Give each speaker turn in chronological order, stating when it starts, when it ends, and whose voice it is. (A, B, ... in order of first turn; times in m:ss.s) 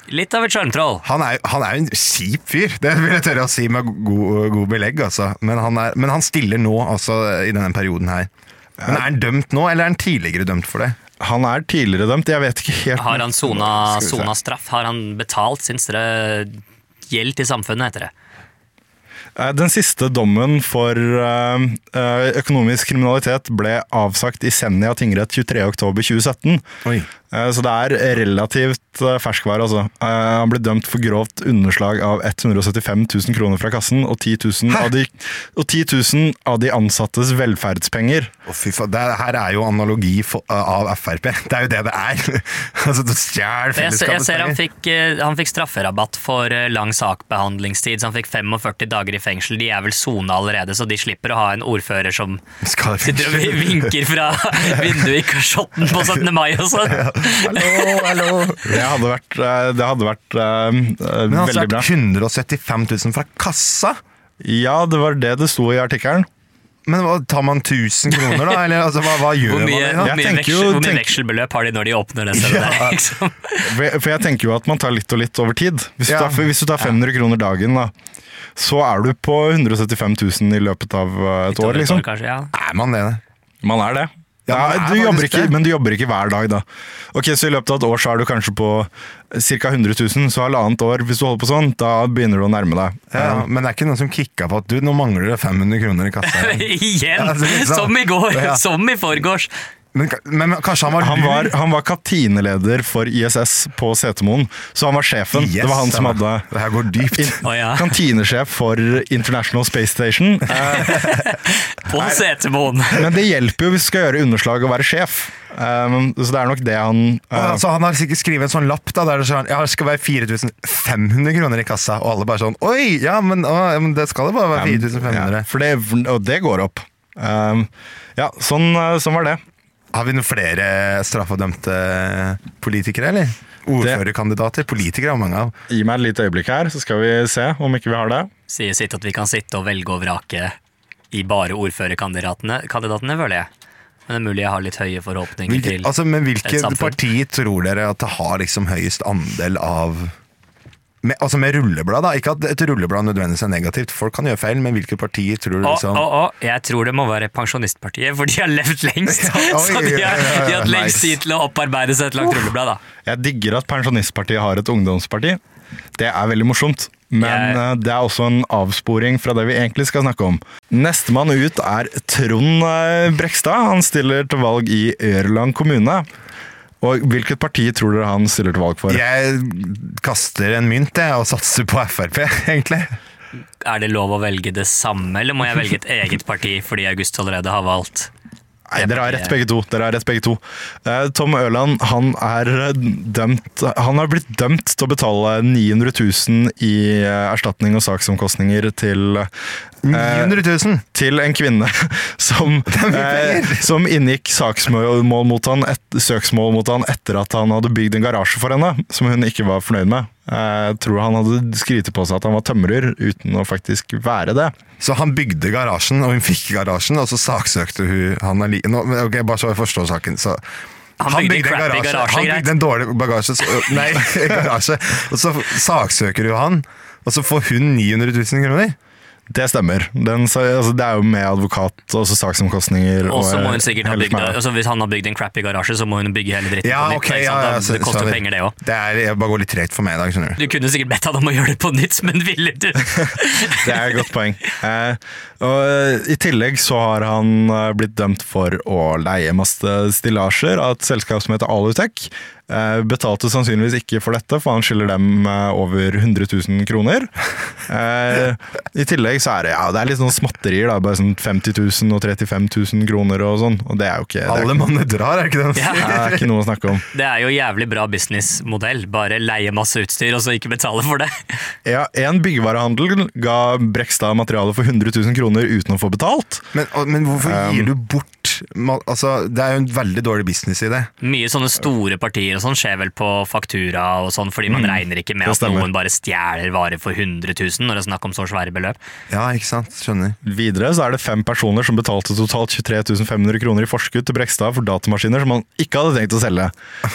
0:00.1-0:01.0 A
0:01.0-0:08.3 B
0:08.8-0:09.1 C
0:08.9-0:11.0 B
0:11.2-0:13.7 C
0:13.0-0:18.1 A
0:19.4-0:26.6 C
0:27.3-0:38.3 C
0:38.5-0:44.6 B
0:43.8-0:52.4 A
0:52.6-0:53.9 B
0:53.0-0:58.5 A
0:56.8-0:58.8 B
0:58.7-1:01.9 C
1:01.3-1:04.0 B
1:04.4-1:06.3 C
1:06.9-1:10.2 B
1:09.4-1:13.7 A
1:10.0-1:11.1 C
1:12.3-1:13.0 B
1:13.6-1:17.9 C
1:16.1-1:16.5 B
1:18.6-1:22.0 C
1:21.5-1:22.5 A
1:22.5-1:23.2 B
1:23.6-1:33.5 C
1:24.5-1:25.5 B
1:33.1-1:38.6 B
1:36.2-1:39.5 A
1:39.9-1:41.5 B
1:41.0-1:46.5 C
1:45.3-1:47.4 B
1:47.1-1:51.1 C
1:47.4-1:47.9 A
1:50.5-1:53.0 A
1:52.0-1:52.2 C
1:53.0-1:57.6 C
1:57.3-2:05.5 B
2:04.6-2:09.4 C
2:09.9-2:15.5 B
2:15.7-2:18.3 C
2:18.5-2:20.6 A
2:21.1-2:23.5 A
2:24.1-2:25.9 A
2:25.5-2:30.2 B
2:26.4-2:27.0 A
2:31.0-2:36.0 B
2:35.6-2:42.8 A
2:39.1-2:40.9 B
2:40.5-2:41.2 C
2:43.1-2:45.4 C
2:46.0-2:56.1 C
2:47.2-2:47.6 A
2:56.8-2:59.0 C
2:58.9-3:03.0 B
3:03.6-3:08.1 A
3:08.7-3:19.3 C
3:08.8-3:09.4 A
3:19.8-3:20.8 B
3:19.9-3:20.4 C
3:20.9-3:34.6 C
3:22.7-3:23.7 B
3:34.8-3:40.4 B
3:41.0-3:48.8 B
3:41.0-3:42.5 A
3:49.3-3:54.4 C
3:53.0-3:58.6 A
3:56.6-4:00.4 B
4:00.4-4:04.0 A
4:03.6-4:17.1 C
4:17.7-4:24.6 C
4:24.3-4:26.3 B
4:25.6-4:26.0 A
4:25.8-4:26.8 C
4:26.9-4:31.4 A
4:31.6-4:36.5 C
4:36.5-4:40.9 B
4:37.2-4:37.7 C
4:41.0-4:48.8 A
4:44.5-4:45.7 C
4:49.1-4:50.2 B
4:50.2-4:56.5 C